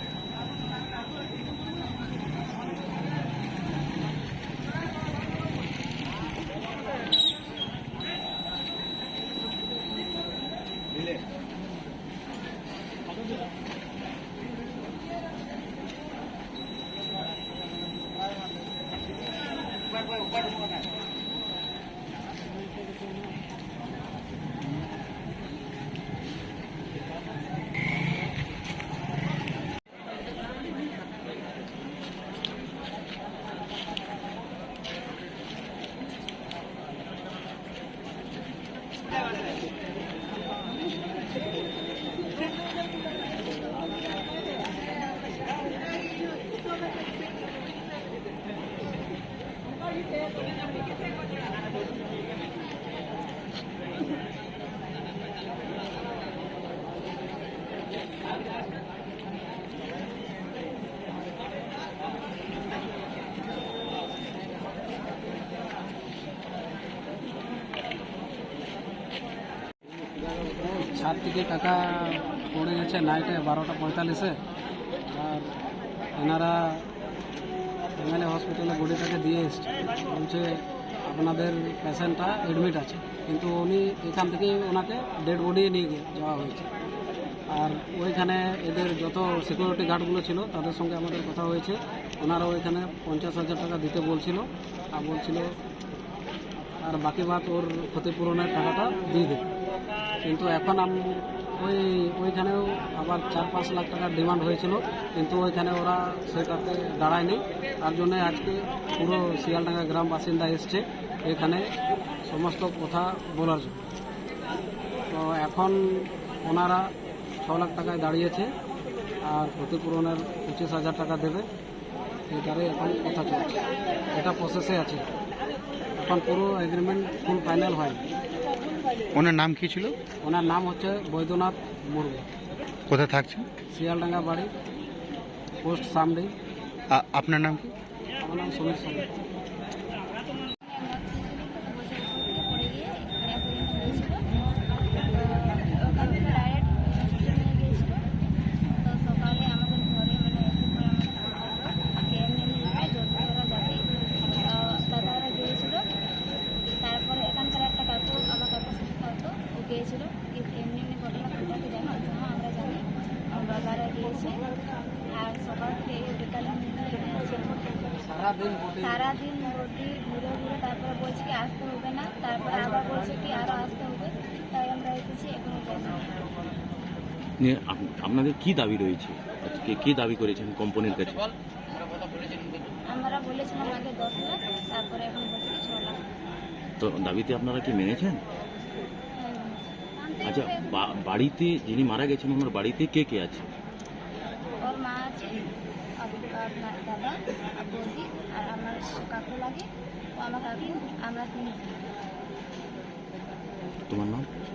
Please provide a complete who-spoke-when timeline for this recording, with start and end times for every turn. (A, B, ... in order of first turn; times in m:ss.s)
1:10.5-1:14.4 A
1:15.1-1:15.5 A
1:16.2-1:16.8 A
1:18.0-1:26.7 A
1:27.5-1:35.5 A
1:36.8-1:39.5 A
1:40.2-1:51.7 A
1:52.2-1:53.8 A
1:55.1-1:58.5 A
1:59.2-2:01.5 A
2:02.3-2:03.6 A
2:04.1-2:05.0 A
2:06.0-2:08.0 A
2:09.1-2:10.0 B
2:10.2-2:12.2 A
2:12.9-2:13.5 B
2:13.7-2:14.5 A
2:15.6-2:16.3 A
2:16.9-2:17.7 B
2:18.2-2:19.1 A
2:20.6-2:24.2 C
2:25.1-2:28.1 C
2:28.8-2:33.8 C
2:34.4-2:35.8 C
2:36.8-2:44.4 C
2:45.1-2:47.8 C
2:47.9-2:49.1 A
2:48.8-2:56.1 C
2:57.4-3:01.3 D
3:02.9-3:06.0 C
3:06.8-3:08.2 D
3:09.2-3:10.7 C
3:10.2-3:13.4 D
3:14.6-3:15.5 C
3:16.0-3:21.9 C
3:23.9-3:24.3 D